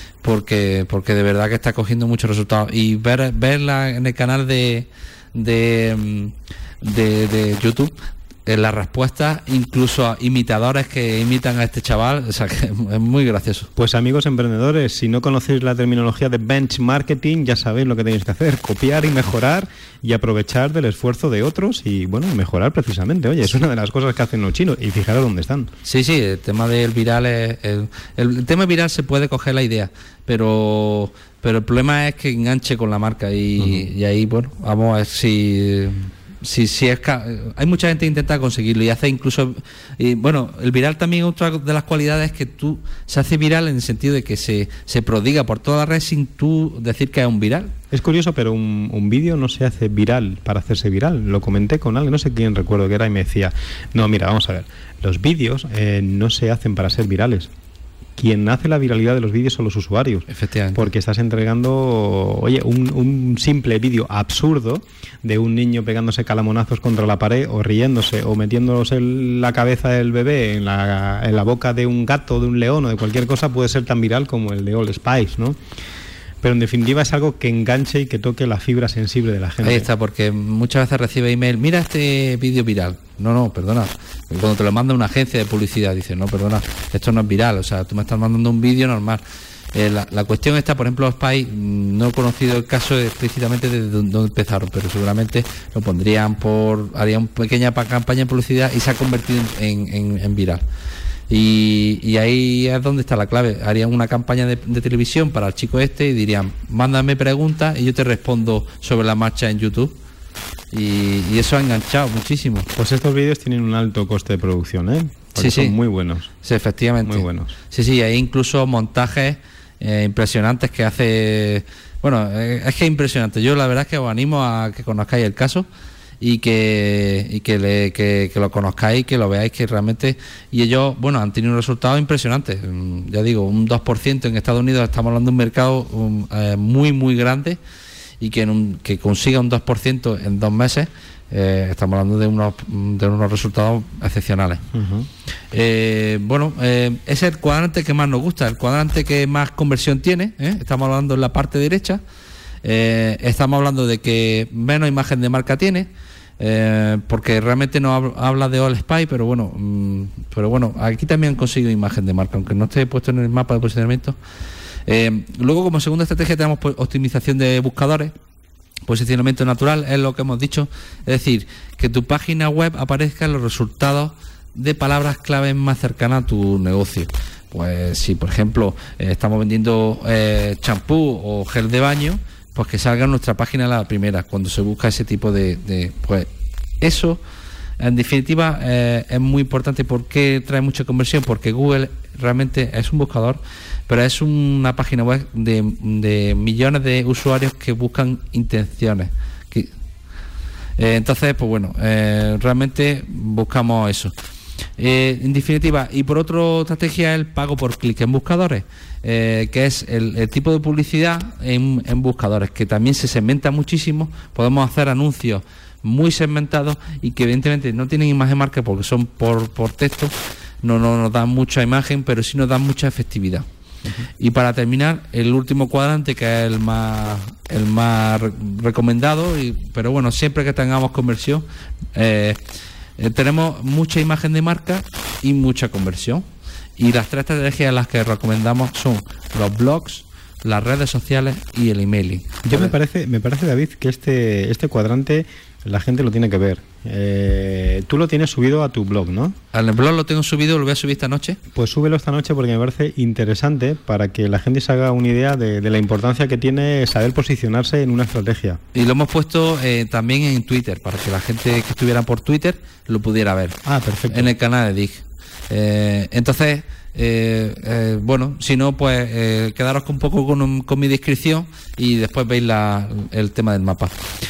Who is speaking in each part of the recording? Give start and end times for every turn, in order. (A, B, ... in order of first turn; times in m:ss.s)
0:00.2-0:07.9 A
0:08.4-0:13.7 A
0:13.8-0:25.7 B
0:25.8-0:47.7 A
0:47.9-0:57.5 B
0:58.2-1:15.6 B
1:00.3-1:00.9 A
1:16.4-1:19.9 B
1:19.6-1:29.2 A
1:29.7-1:40.6 A
1:41.3-1:49.9 A
1:50.7-1:52.7 A
1:52.8-1:56.3 B
1:55.4-1:55.8 A
1:56.4-2:05.6 A
1:57.0-1:57.5 B
2:06.2-2:17.6 A
2:18.2-2:24.6 A
2:24.7-2:25.1 B
2:25.5-2:32.0 A
2:32.6-2:35.9 A
2:36.4-2:44.2 A
2:44.9-2:48.1 A
2:48.9-3:06.3 A
3:06.8-3:07.2 A
3:07.8-3:19.7 A
3:20.8-3:24.1 A
3:24.8-3:43.4 A
3:44.2-3:52.4 A
3:53.0-3:56.2 A
3:56.8-4:02.7 A
4:02.4-4:09.4 B
4:09.5-4:11.4 A
4:11.5-4:18.6 B
4:18.7-4:23.6 A
4:23.6-4:24.3 B
4:24.1-4:33.9 A